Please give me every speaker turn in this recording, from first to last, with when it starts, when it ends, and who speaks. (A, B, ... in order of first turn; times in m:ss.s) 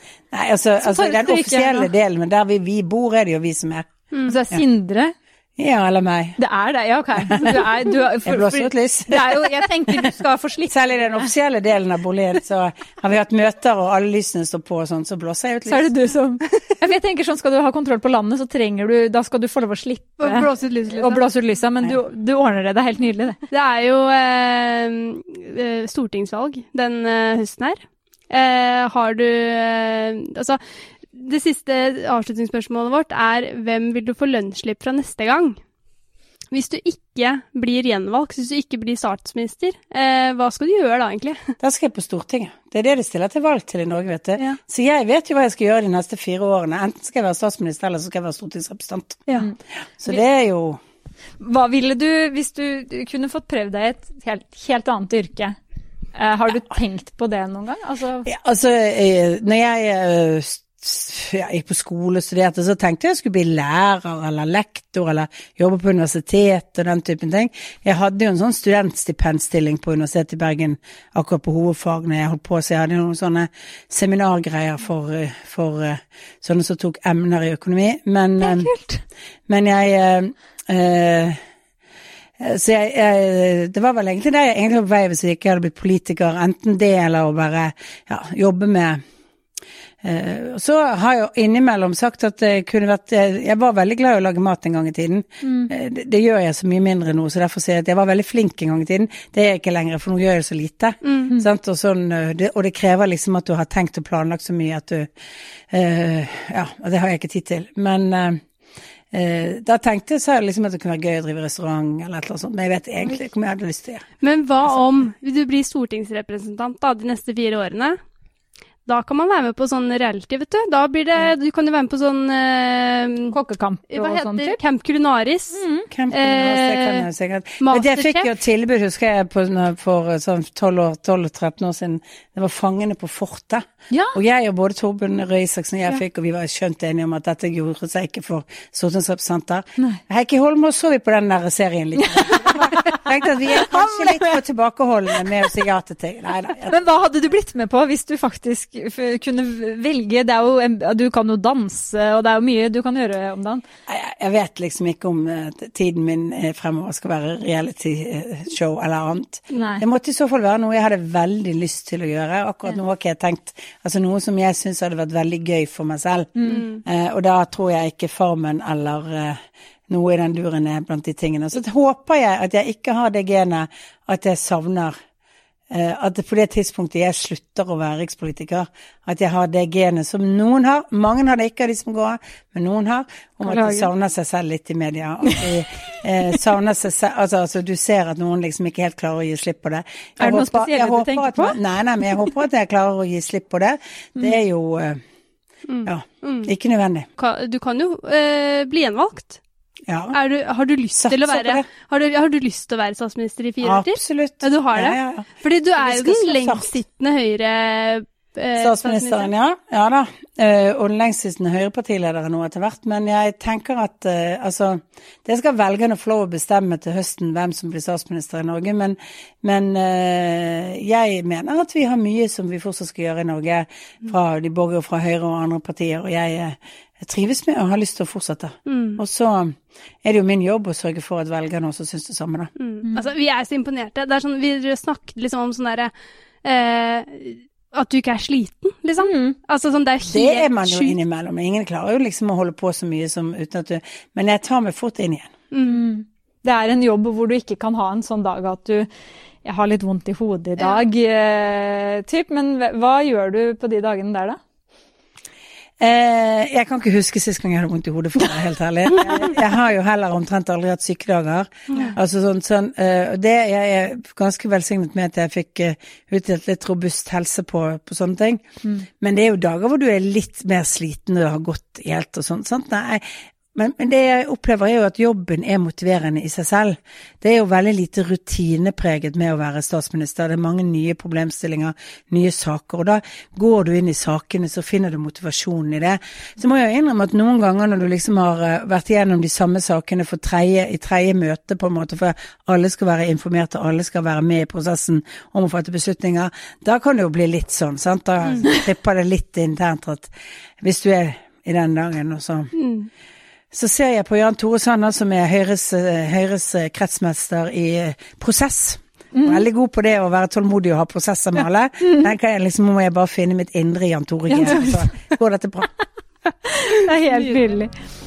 0:00.3-0:03.9 A
0:00.8-0:01.9 B
0:04.1-0:04.4 C
0:04.2-0:05.1 B
0:05.6-0:06.4 A
0:06.4-0:10.8 B
0:07.3-0:07.5 A
0:08.2-0:10.1 A
0:10.7-0:15.9 A
0:15.7-0:23.4 B
0:20.2-0:21.2 C
0:23.5-0:30.6 C
0:31.1-0:35.6 C
0:36.5-0:41.6 C
0:41.6-0:49.3 A
0:50.0-0:50.8 A
0:51.4-0:55.6 B
0:56.1-0:58.3 B
0:58.2-1:18.7 A
1:18.4-1:19.0 B
1:19.5-1:21.4 A
1:22.4-1:29.0 A
1:30.0-1:45.1 A
1:35.4-1:35.7 B
1:41.0-1:41.3 C
1:45.7-1:48.4 A
1:49.1-1:54.1 A
1:54.2-1:58.0 C
1:58.8-2:03.3 C
2:03.3-2:04.6 B
2:03.9-2:07.0 C
2:05.5-2:05.9 B
2:05.9-2:26.8 A
2:07.6-2:08.3 C
2:13.9-2:14.2 B
2:22.1-2:24.3 B
2:26.7-2:33.6 B
2:33.9-2:54.9 A
2:39.5-2:39.8 B
2:46.4-2:46.6 B
2:46.5-2:46.8 C
2:55.7-3:15.0 A
3:03.4-3:03.9 B
3:10.2-3:11.6 B
3:15.7-3:16.5 C
3:15.8-3:17.1 A
3:17.2-3:19.4 C
3:19.9-3:20.2 A
3:20.1-3:29.3 C
3:21.0-3:21.7 A
3:23.6-3:25.3 A
3:25.8-3:26.8 A
3:28.6-3:52.5 A
3:48.7-3:49.0 C
3:52.6-3:55.9 C
3:56.4-4:00.9 C
3:59.0-3:59.4 B
4:00.0-4:05.3 A
4:05.5-4:05.8 C
4:05.6-4:08.9 B
4:09.4-4:14.4 B
4:15.8-4:28.4 A
4:29.0-5:02.5 A
5:02.6-5:02.9 C
5:03.5-5:15.7 A
5:09.1-5:09.4 B
5:14.3-5:14.9 B
5:16.4-5:17.7 B